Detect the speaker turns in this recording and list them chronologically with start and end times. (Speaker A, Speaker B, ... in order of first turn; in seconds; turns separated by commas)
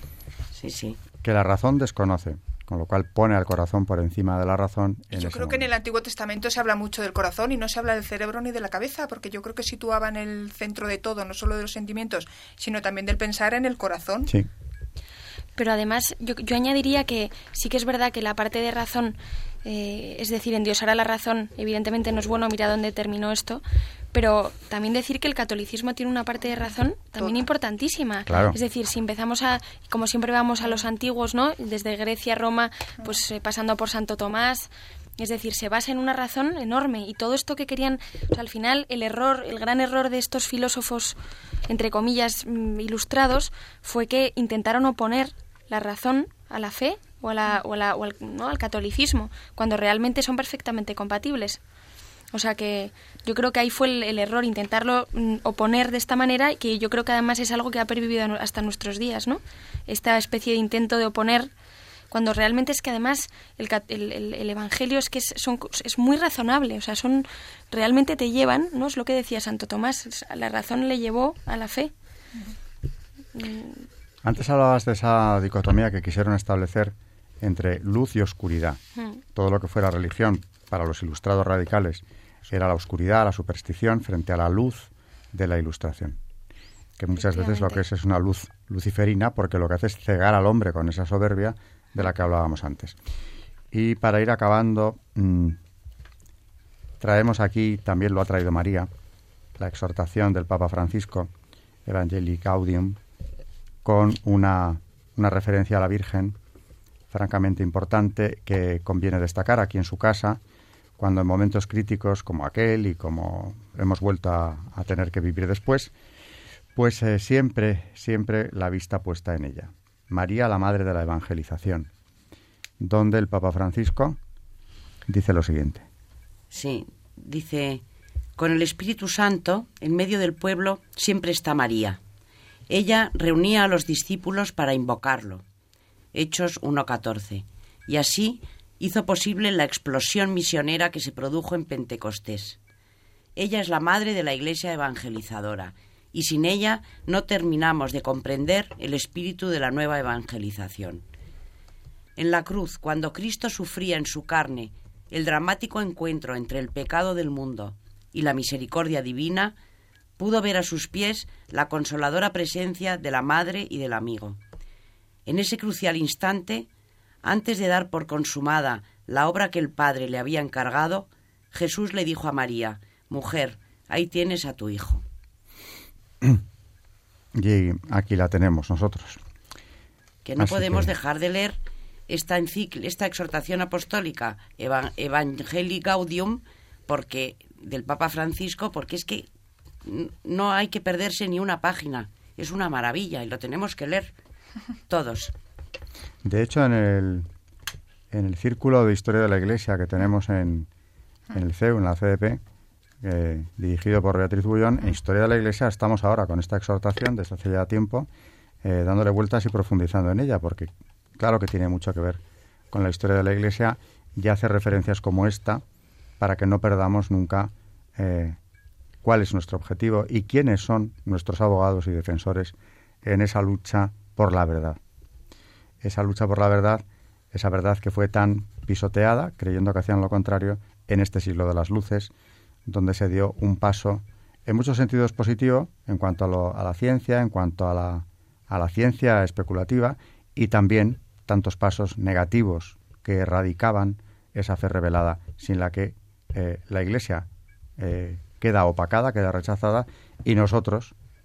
Speaker A: 0.5-1.0, Speaker B: 1.2-5.7, Speaker C: 5.1-14.3, Speaker D: 15.6-23.6, Speaker D: 24.1-41.2, Speaker B: 28.3-28.6, Speaker D: 41.7-51.6, Speaker D: 52.3-61.5, Speaker D: 62.1-71.9, Speaker D: 73.3-73.8, Speaker B: 74.2-78.8, Speaker B: 79.3-86.2, Speaker B: 87.0-93.0, Speaker B: 93.7-95.6, Speaker B: 97.0-98.9, Speaker B: 99.6-101.3, Speaker B: 101.9-103.0, Speaker B: 103.8-106.4, Speaker B: 107.1-110.4, Speaker B: 111.0-115.9, Speaker B: 116.8-121.9, Speaker B: 122.8-124.2, Speaker B: 125.1-125.8, Speaker A: 126.5-127.8, Speaker A: 128.4-132.0, Speaker A: 132.7-135.4, Speaker A: 136.1-142.6, Speaker A: 143.4-151.0, Speaker A: 152.2-159.6, Speaker A: 160.2-164.4, Speaker A: 165.3-166.7, Speaker A: 167.2-175.0, Speaker B: 177.3-179.2, Speaker A: 180.2-181.6, Speaker B: 180.4-180.9, Speaker A: 182.1-189.3, Speaker A: 189.8-194.1, Speaker A: 194.9-195.3, Speaker B: 196.2-197.3, Speaker B: 198.1-200.7, Speaker B: 201.3-202.4, Speaker B: 203.0-208.1, Speaker B: 208.6-212.2, Speaker B: 212.7-215.6, Speaker B: 216.2-218.4, Speaker B: 219.0-224.8, Speaker B: 225.8-232.1, Speaker B: 232.7-247.3, Speaker B: 247.8-250.9